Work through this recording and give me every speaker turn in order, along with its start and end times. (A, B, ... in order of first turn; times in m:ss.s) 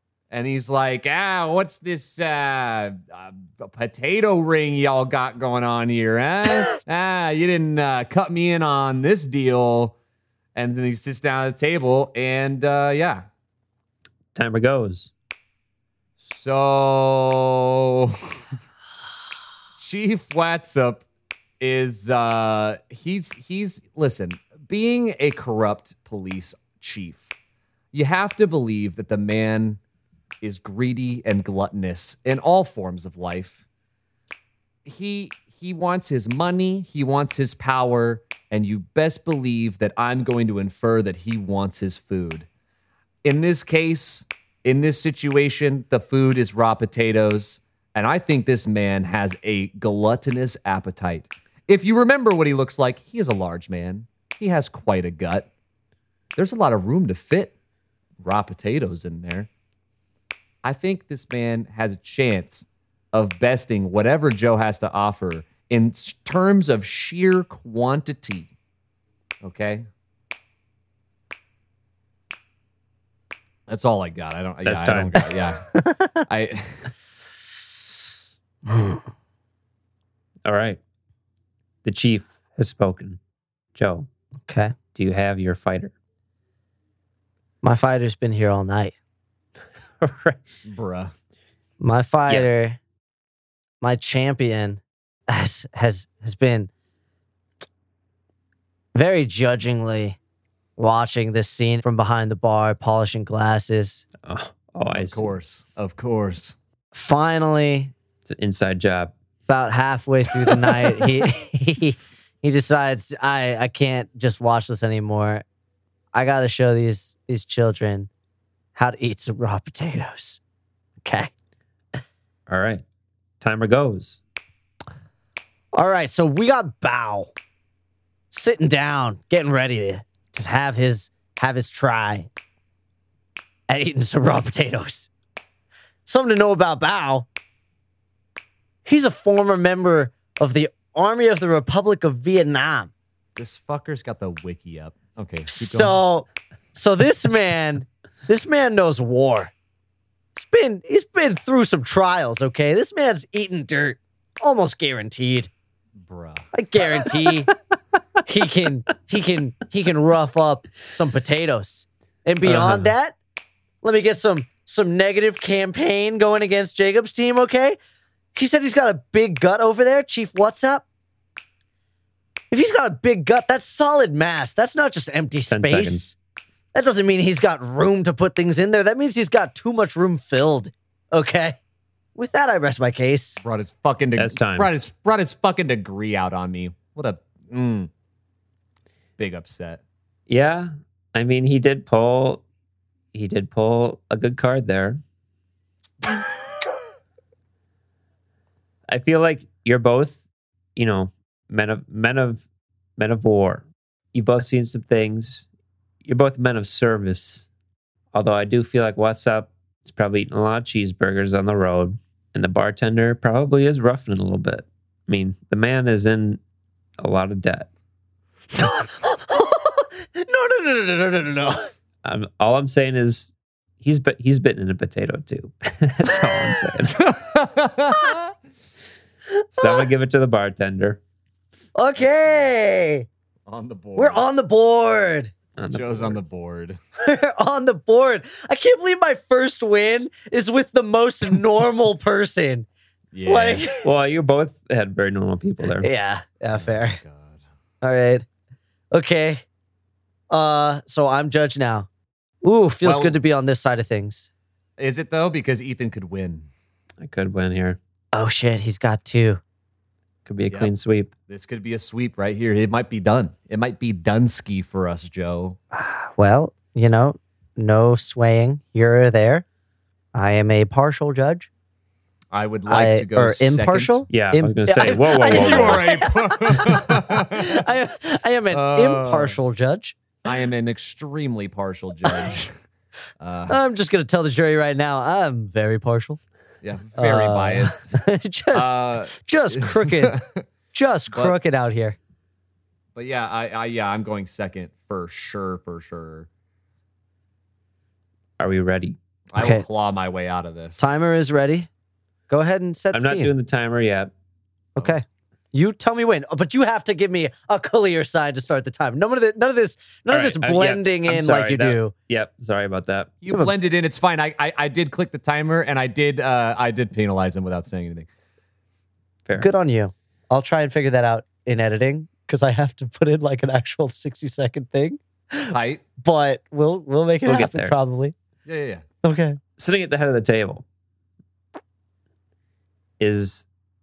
0:00.3-0:09.9 A
0:10.5-0:13.2 A
0:14.3-0:15.1 B
0:16.2-0:18.4 A
0:19.8-0:21.0 A
0:21.6-0:27.3 A
0:27.9-0:29.8 A
0:30.4-0:33.6 A
0:34.8-0:42.5 A
0:43.2-0:55.5 A
0:56.4-0:57.5 A
0:58.2-0:59.5 A
1:00.6-1:08.5 A
1:09.4-1:09.9 A
1:13.7-1:15.6 A
1:14.6-1:15.3 B
1:15.7-1:16.2 C
1:16.2-1:16.9 A
1:18.7-1:19.0 C
1:20.4-1:20.8 B
1:21.8-1:23.2 B
1:23.8-1:24.1 B
1:24.5-1:24.7 C
1:24.9-1:25.9 B
1:27.6-1:29.0 C
1:30.0-1:30.4 B
1:30.6-1:31.1 A
1:31.8-1:32.8 C
1:33.8-1:36.7 C
1:38.9-1:40.2 C
1:40.8-1:44.0 C
1:44.2-1:45.3 B
1:44.9-1:46.6 A
1:46.9-1:47.9 C
1:48.2-1:49.1 B
1:49.5-1:55.4 C
1:56.1-1:58.1 C
1:58.7-2:00.4 C
2:01.0-2:01.3 C
2:02.5-2:02.8 B
2:03.4-2:04.2 B
2:05.7-2:07.3 C
2:08.3-2:12.3 C
2:13.7-2:15.1 C
2:16.0-2:17.3 C
2:18.8-2:22.9 C
2:23.4-2:26.0 A
2:25.5-2:29.5 C
2:30.3-2:35.5 C
2:36.0-2:36.4 A
2:36.5-2:37.5 C
2:37.0-2:37.3 B
2:38.2-2:43.2 C
2:42.4-2:42.9 B
2:43.8-2:47.8 C
2:48.3-2:50.8 C
2:52.5-2:56.2 C
2:55.5-2:56.0 B
2:56.7-3:01.6 C
3:02.2-3:03.4 C
3:03.4-3:07.9 A
3:04.2-3:04.7 B
3:09.2-3:09.8 A
3:10.3-3:12.4 B
3:13.1-3:15.0 B
3:18.9-3:20.2 B
3:20.8-3:22.4 B
3:23.0-3:25.4 B
3:26.0-3:27.4 B
3:28.1-3:36.4 B
3:37.0-3:37.7 B
3:38.5-3:41.7 C
3:42.0-3:47.0 B
3:47.0-3:48.3 A
3:49.4-3:49.8 C
3:49.6-3:51.0 B
3:51.7-3:53.1 C
3:52.0-3:52.5 A
3:53.4-3:54.2 A
3:54.0-3:55.3 C
3:55.6-3:56.2 B
3:55.7-3:56.8 A
3:57.0-4:02.7 C
4:03.1-4:03.6 A
4:03.2-4:03.8 C
4:03.8-4:05.9 B
4:05.8-4:07.0 C
4:06.5-4:07.4 A
4:07.8-4:08.2 C
4:08.9-4:09.4 C
4:10.3-4:11.9 C
4:12.4-4:14.3 C
4:12.8-4:13.2 A
4:14.8-4:16.5 A
4:17.0-4:17.8 B
4:18.1-4:19.4 C
4:20.2-4:21.1 B
4:21.3-4:25.6 A
4:25.7-4:29.4 C
4:30.1-4:31.5 C
4:32.3-4:34.0 A
4:32.7-4:40.0 C
4:34.1-4:35.8 B
4:35.2-4:37.6 A
4:38.5-4:39.4 A
4:40.2-4:42.5 A
4:42.0-4:42.4 C
4:43.2-4:43.6 A
4:43.5-4:46.2 C
4:46.6-4:48.0 A
4:47.0-4:50.2 C
4:48.5-4:50.4 A
4:50.7-4:52.0 C
4:52.9-4:56.3 A
4:58.4-4:59.0 B
4:59.3-5:00.9 A
4:59.4-4:59.6 C
5:00.8-5:01.7 C
5:02.3-5:03.3 C
5:02.9-5:04.1 B
5:04.8-5:11.9 C
5:10.1-5:13.1 B
5:13.2-5:18.1 A
5:19.4-5:28.1 C
5:25.5-5:25.8 A
5:27.2-5:27.7 B
5:28.4-5:28.8 A
5:29.0-5:29.4 C
5:29.6-5:30.6 B
5:33.0-5:33.4 B